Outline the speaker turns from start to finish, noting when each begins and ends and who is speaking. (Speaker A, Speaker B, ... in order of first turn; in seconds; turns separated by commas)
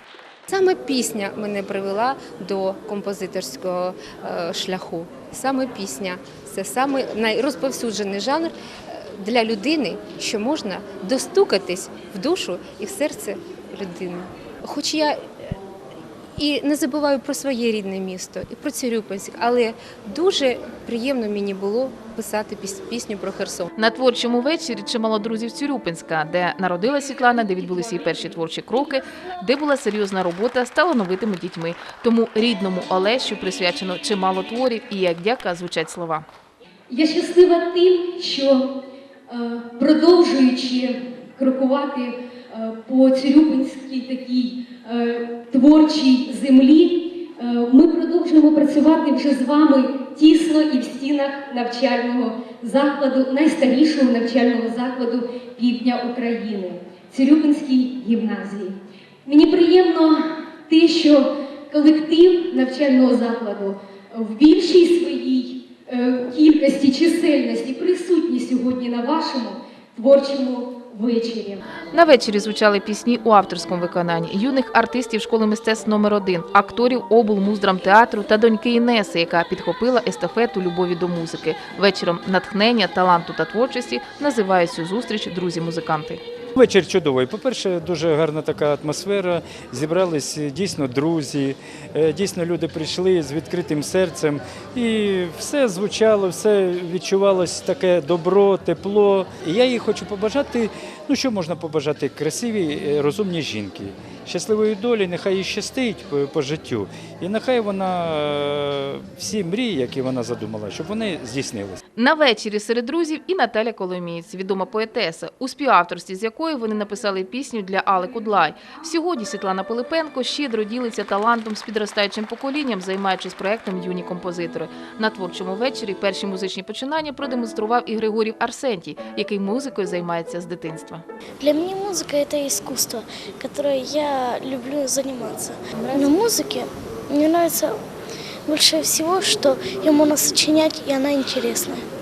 Speaker A: 0.5-15.6, Speaker A: 16.4-23.7, Speaker B: 23.8-36.2, Speaker C: 36.9-38.7, Speaker C: 39.3-71.7, Speaker B: 71.9-86.2, Speaker D: 86.6-111.8, Speaker B: 112.0-131.0, Speaker E: 131.4-137.8, Speaker E: 138.5-141.8